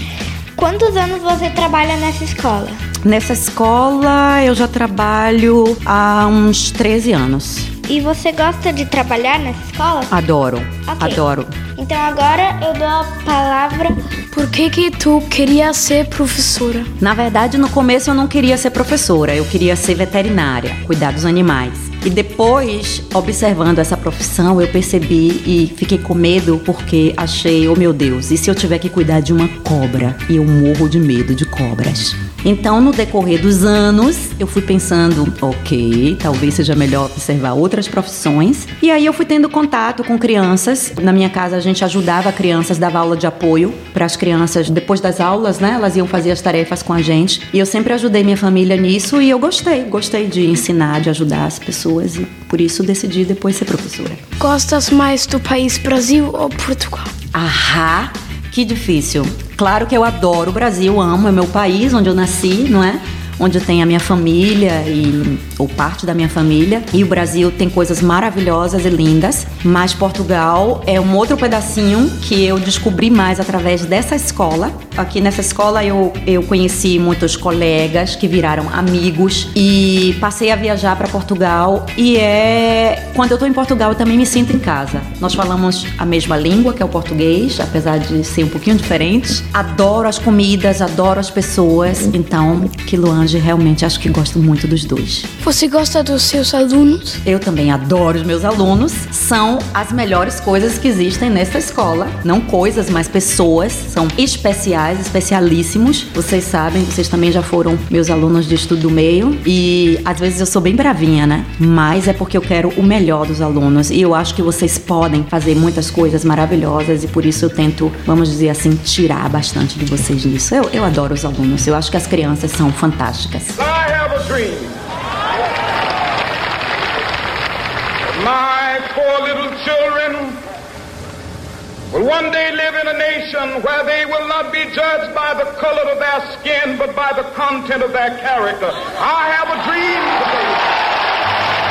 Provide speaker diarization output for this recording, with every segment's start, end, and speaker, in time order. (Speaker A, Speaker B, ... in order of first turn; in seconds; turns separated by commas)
Speaker A: 0.6-2.8, Speaker B: 3.0-7.7, Speaker A: 7.9-10.1, Speaker B: 10.1-11.5, Speaker A: 10.9-11.2, Speaker A: 11.8-14.0, Speaker C: 14.3-16.9, Speaker B: 17.0-54.2, Speaker C: 54.4-57.1, Speaker B: 57.3-95.3, Speaker C: 95.4-97.2, Speaker B: 97.2-123.6, Speaker D: 123.6-124.8, Speaker D: 128.2-130.4, Speaker D: 131.9-140.6